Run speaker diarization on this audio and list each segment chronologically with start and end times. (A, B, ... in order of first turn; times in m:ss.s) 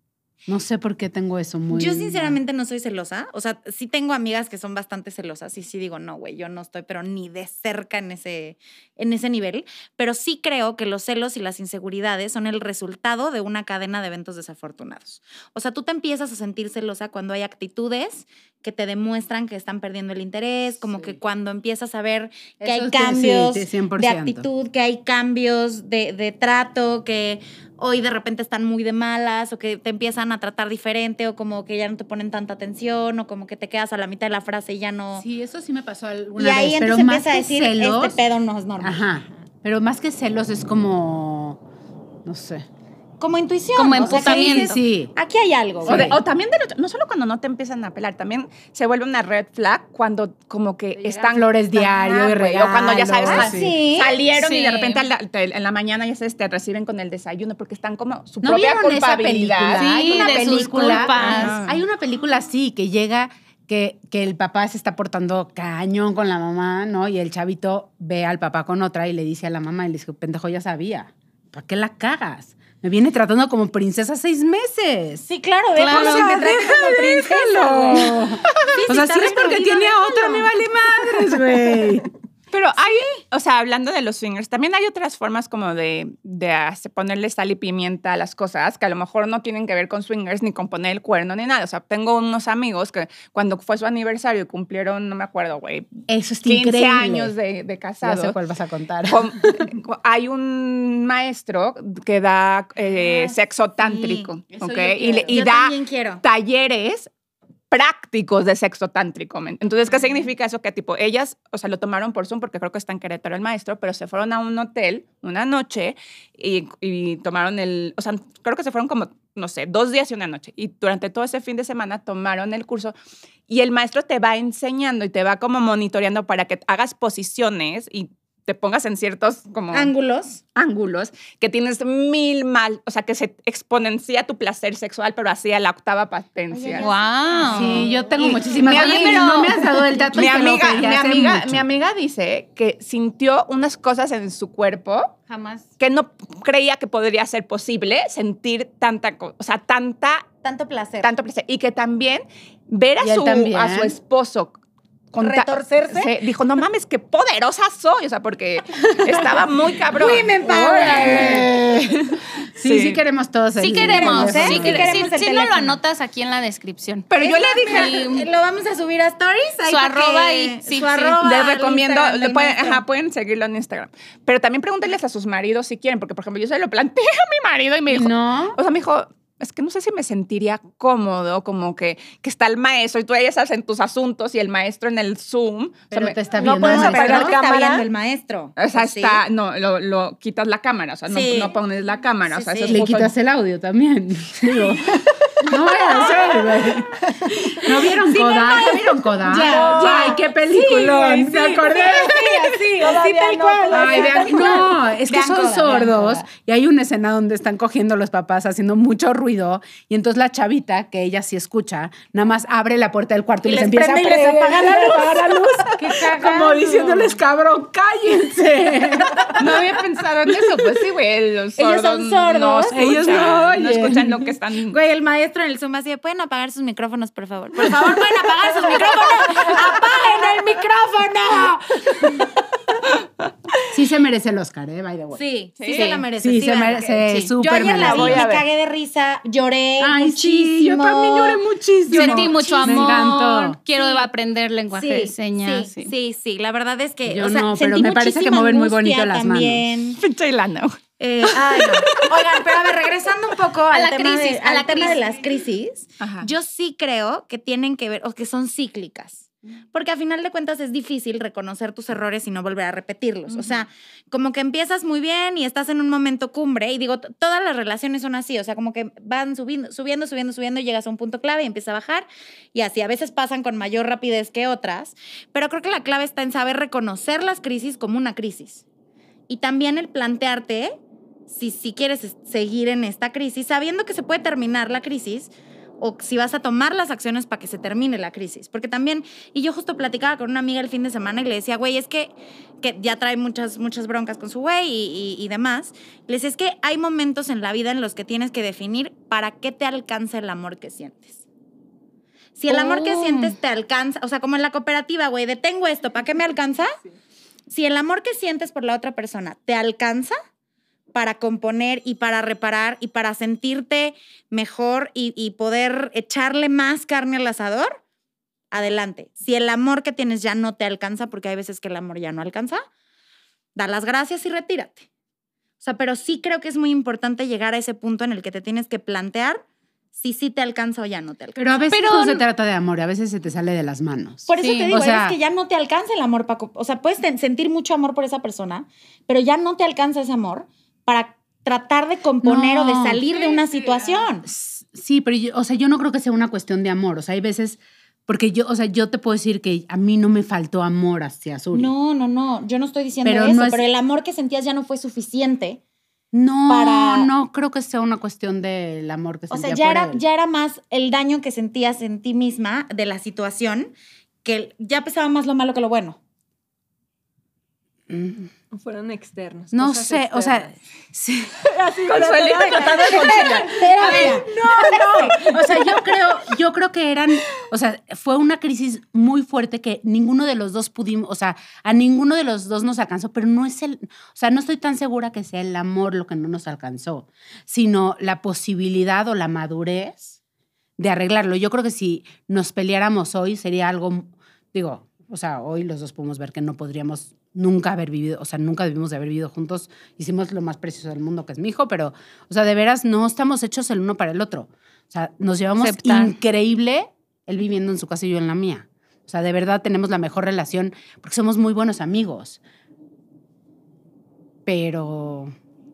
0:00.5-0:02.4 A
0:01.7-0:35.3 B
0:22.6-0:24.5 A
0:35.2-0:38.2 A
0:36.4-0:39.0 B
0:38.8-0:41.6 A
0:42.2-0:42.6 A
0:43.2-0:46.2 B
0:43.8-0:44.8 C
0:44.0-0:45.1 A
0:45.8-0:46.2 A
0:45.9-0:59.9 D
0:51.0-0:53.8 A
0:53.3-0:54.2 B
0:54.3-0:55.0 C
0:58.4-1:15.2 A
0:59.8-1:01.6 C
1:00.8-1:01.8 D
1:01.3-1:01.6 B
1:15.2-1:20.5 B
1:15.8-1:16.4 C
1:15.8-1:22.1 A
1:22.5-1:35.9 D
1:36.1-1:37.3 A
1:36.4-1:38.4 D
1:38.0-1:39.7 A
1:39.1-1:47.1 D
1:42.9-1:46.2 B
1:47.7-2:02.9 D
2:03.5-2:09.9 D
2:09.7-2:10.4 B
2:10.6-2:16.9 D
2:16.5-2:18.6 B
2:16.8-2:17.9 C
2:17.5-2:21.6 A
2:18.2-2:19.5 D
2:18.6-2:19.6 C
2:20.1-2:25.2 D
2:25.3-2:25.6 C
2:25.8-2:30.3 D
2:30.4-2:31.1 B
2:31.0-2:34.6 D
2:33.0-2:34.0 A
2:35.1-2:41.5 D
2:35.2-2:36.1 B
2:39.9-2:41.5 B
2:40.0-2:45.0 A
2:42.6-2:43.0 D
2:43.6-2:47.1 C
2:43.8-2:45.8 B
2:47.1-2:48.1 D
2:47.2-2:52.8 B
2:47.6-2:48.3 C
2:49.7-2:51.2 C
2:51.2-3:06.2 D
2:57.9-2:58.6 A
3:05.9-3:07.4 A
3:06.4-3:07.9 E
3:06.4-3:09.2 B
3:08.6-3:13.1 D
3:11.1-3:11.6 B
3:12.3-3:12.8 B
3:12.7-3:22.6 A
3:14.9-3:15.4 E
3:15.8-3:16.3 B
3:17.9-3:26.3 B
3:19.3-3:20.2 E
3:22.8-3:24.6 E
3:23.7-3:39.6 A
3:33.5-3:37.1 B
3:33.6-3:33.8 D
3:39.4-3:44.8 D
3:41.6-3:43.4 B
3:42.7-3:44.3 A
3:44.7-3:52.3 B
3:53.7-3:55.2 A
3:55.1-4:01.4 B
3:55.6-3:56.0 D
3:55.8-3:56.0 C
3:56.2-3:58.5 A
3:57.1-3:57.3 C
3:57.7-3:58.3 D
3:59.8-4:03.6 A
4:01.9-4:05.9 C
4:02.0-4:03.1 B
4:03.7-4:04.1 B
4:04.7-4:10.0 B
4:07.1-4:09.7 A
4:10.0-4:10.8 D
4:11.0-4:38.6 B
4:11.3-4:12.4 D
4:13.7-4:15.2 C
4:16.0-4:16.3 D
4:39.3-4:40.8 B
4:41.3-5:01.2 B
5:02.4-5:06.7 B
5:02.5-5:03.4 C
5:07.5-5:10.2 B
5:10.9-5:17.8 B
5:18.5-5:22.6 B
5:23.6-5:24.9 B
5:25.6-5:29.4 B
5:30.0-5:31.6 B
5:31.4-5:35.2 A
5:31.7-5:32.2 C
5:34.3-5:44.3 B
5:34.4-5:34.8 C
5:42.2-5:43.1 A
5:43.2-5:44.0 D
5:44.2-5:51.7 A
5:51.5-5:55.6 B
5:53.0-5:53.7 A
5:56.1-6:00.0 A
5:56.5-5:57.1 B
5:59.3-6:03.7 B
6:04.2-6:06.0 B
6:07.9-6:08.3 A
6:08.5-6:10.6 E
6:09.5-6:11.4 A
6:11.4-6:15.3 E
6:11.9-6:14.2 D
6:12.4-6:15.1 B
6:13.8-6:30.2 A
6:30.8-6:52.4 A
6:45.6-6:46.2 C
6:54.5-6:55.3 A